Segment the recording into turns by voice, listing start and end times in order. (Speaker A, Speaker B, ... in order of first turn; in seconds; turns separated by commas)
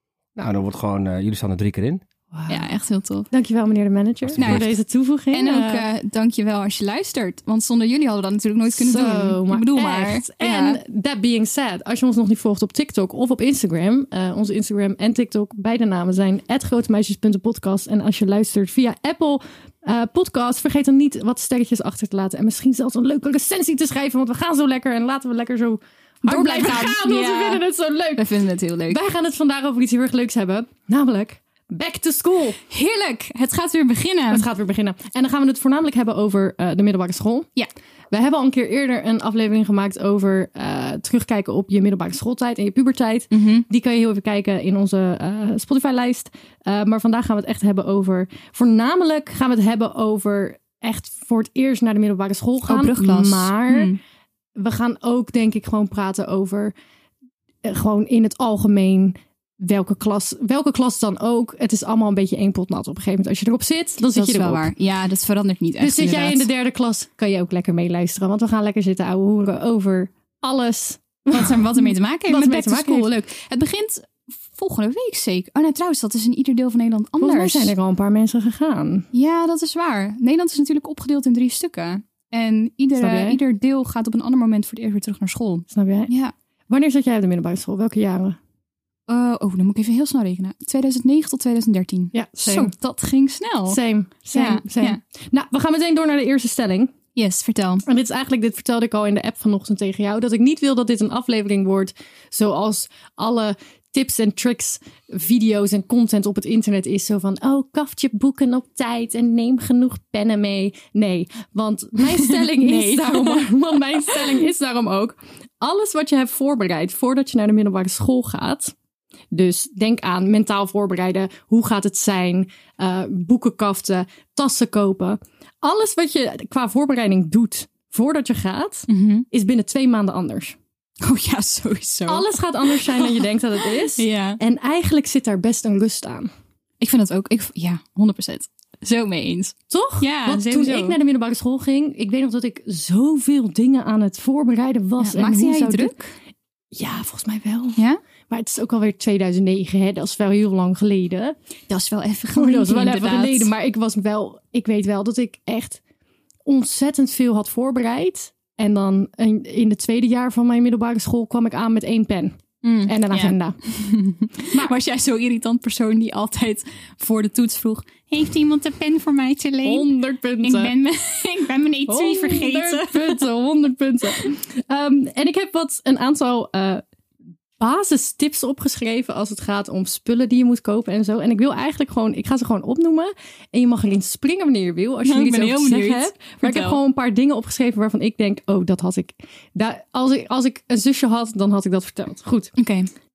Speaker A: 0.4-2.0, Speaker B: 2.3-2.7, Speaker C: 2.5-3.3, Speaker B: 3.3-5.9, Speaker A: 4.2-4.6, Speaker C: 4.4-4.8, Speaker C: 5.3-10.8, Speaker B: 8.7-28.3, Speaker C: 26.2-27.6, Speaker C: 28.2-29.0, Speaker B: 28.9-32.6, Speaker C: 32.7-34.5, Speaker B: 34.3-37.5, Speaker B: 38.1-53.9, Speaker C: 43.3-43.6, Speaker C: 52.6-54.0, Speaker B: 54.6-56.7, Speaker B: 57.6-64.7, Speaker C: 64.0-66.5, Speaker B: 65.8-73.2, Speaker C: 71.3-77.7, Speaker B: 77.2-79.1, Speaker C: 79.1-86.3, Speaker B: 83.0-83.4, Speaker B: 85.7-86.1, Speaker B: 86.7-88.4, Speaker C: 89.1-93.8, Speaker B: 92.1-92.7, Speaker B: 93.7-96.9, Speaker C: 94.3-95.0, Speaker C: 97.2-97.8, Speaker B: 97.9-118.7, Speaker C: 112.0-114.4, Speaker B: 119.3-130.6, Speaker C: 128.9-129.2, Speaker C: 131.0-134.4, Speaker B: 132.1-136.3, Speaker C: 136.8-141.0, Speaker B: 139.7-146.0, Speaker C: 145.0-146.1, Speaker B: 146.7-151.4, Speaker C: 151.7-153.5, Speaker B: 152.3-155.8, Speaker B: 156.5-162.3, Speaker C: 162.6-169.9, Speaker B: 162.8-163.6, Speaker B: 169.6-170.7, Speaker C: 170.4-173.3, Speaker B: 171.9-176.8, Speaker B: 177.6-192.6, Speaker C: 185.0-186.8, Speaker C: 192.6-192.9